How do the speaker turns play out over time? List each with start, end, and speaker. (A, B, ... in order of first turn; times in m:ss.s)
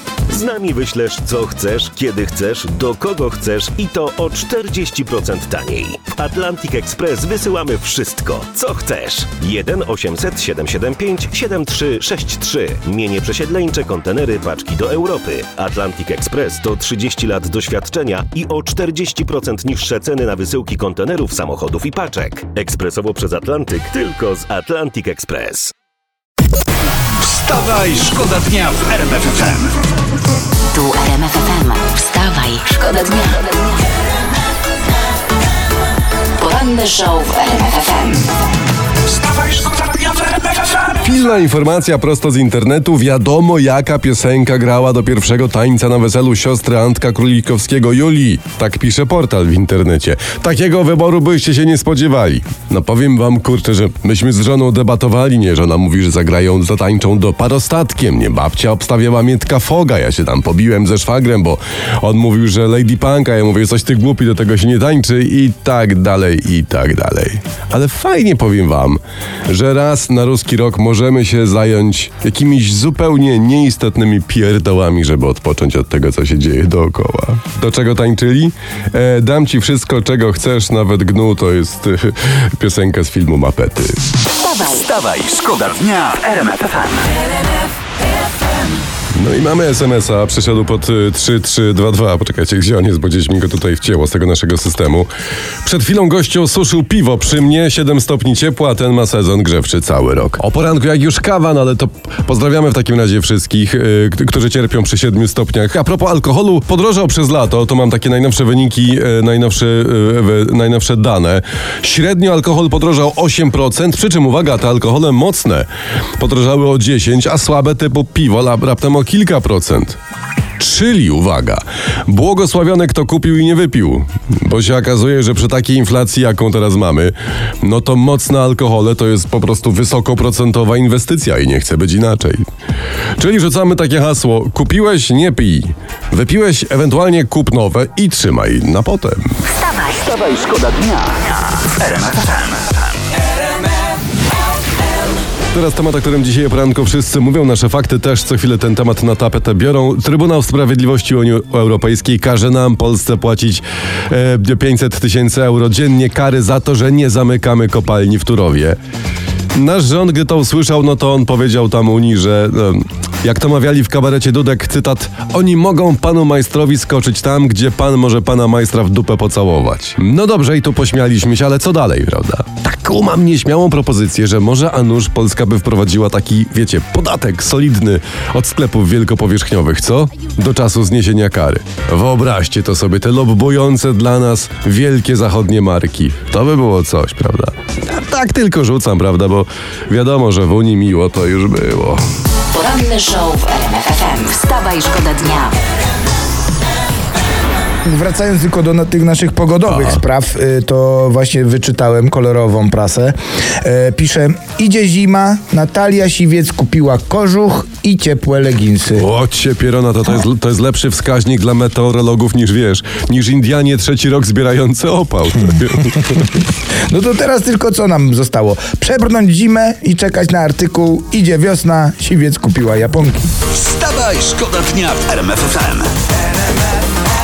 0:00.3-0:25.7 A
0:27.2-0:29.7 B
0:30.7-0:33.5 C
0:36.4-0:38.3 C
0:41.0-1:24.0 D
1:24.4-1:24.8 C
1:24.6-1:27.1 B
1:29.1-1:35.1 D
1:35.6-1:55.7 D
1:56.2-2:00.0 D
2:00.6-2:12.4 D
2:13.2-2:19.3 D
2:19.5-2:20.0 C
2:19.8-2:22.8 B
2:25.5-2:38.8 D
2:39.5-3:12.0 D
3:12.5-3:15.6 C
3:17.8-3:29.1 E
3:19.6-3:20.0 D
3:28.9-3:36.2 D
3:36.9-3:43.3 E
3:43.5-3:45.9 B